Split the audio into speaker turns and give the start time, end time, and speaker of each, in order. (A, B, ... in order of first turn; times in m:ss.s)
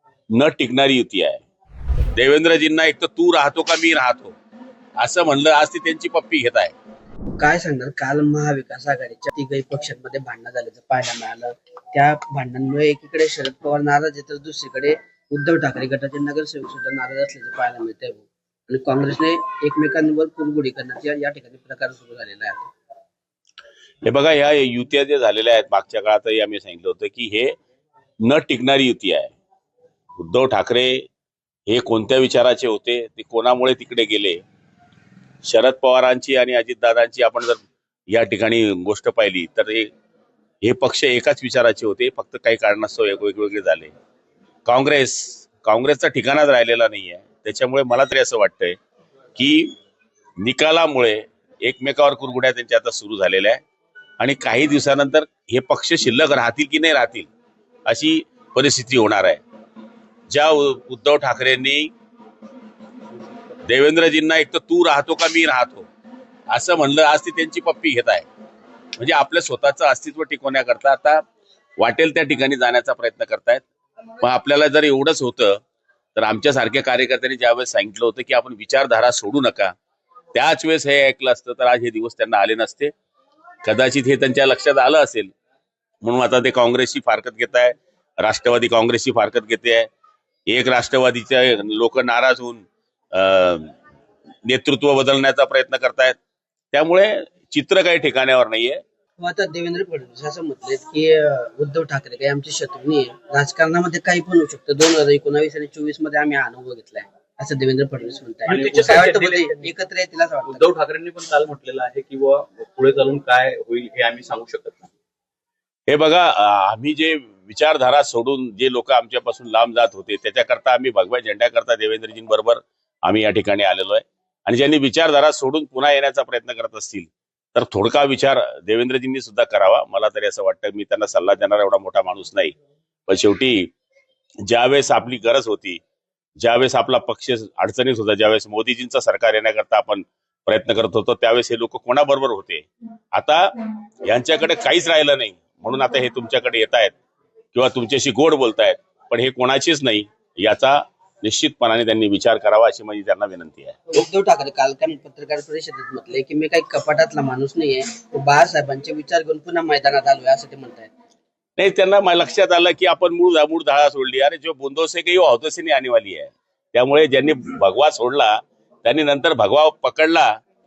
0:00.3-0:01.4 A
0:02.2-0:04.3 A
0:05.0-0:06.7 A
0:07.4-0:22.7 B
0:24.0-0:27.5 A
0:28.2-0:29.3 A
0:30.2-0:31.0 A
0:31.7-0:34.4 A
0:35.4-0:39.9 A
0:40.6-0:43.9 A
0:44.6-0:48.8 A
0:49.3-0:49.7 A
0:50.4-0:53.6 A
0:54.2-0:57.3 A
0:57.8-0:59.4 A
1:00.3-1:01.9 A
1:03.6-1:05.9 A
1:06.5-1:08.3 A
1:09.0-1:11.2 A
1:11.8-1:13.6 A
1:14.2-1:15.6 A
1:16.1-1:19.7 A
1:20.3-1:22.9 A
1:23.6-1:25.3 A
1:26.0-1:29.9 A
1:30.5-1:33.7 A
1:34.4-1:36.2 A
1:36.7-1:38.8 A
1:39.2-1:50.7 B
1:48.4-1:49.7 C
1:50.4-1:54.9 C
1:55.9-2:12.6 A
2:13.1-2:13.7 A
2:14.4-2:15.8 A
2:16.4-2:23.5 A
2:24.0-2:26.9 A
2:27.5-2:33.8 A
2:33.9-2:40.9 B
2:41.6-2:50.3 A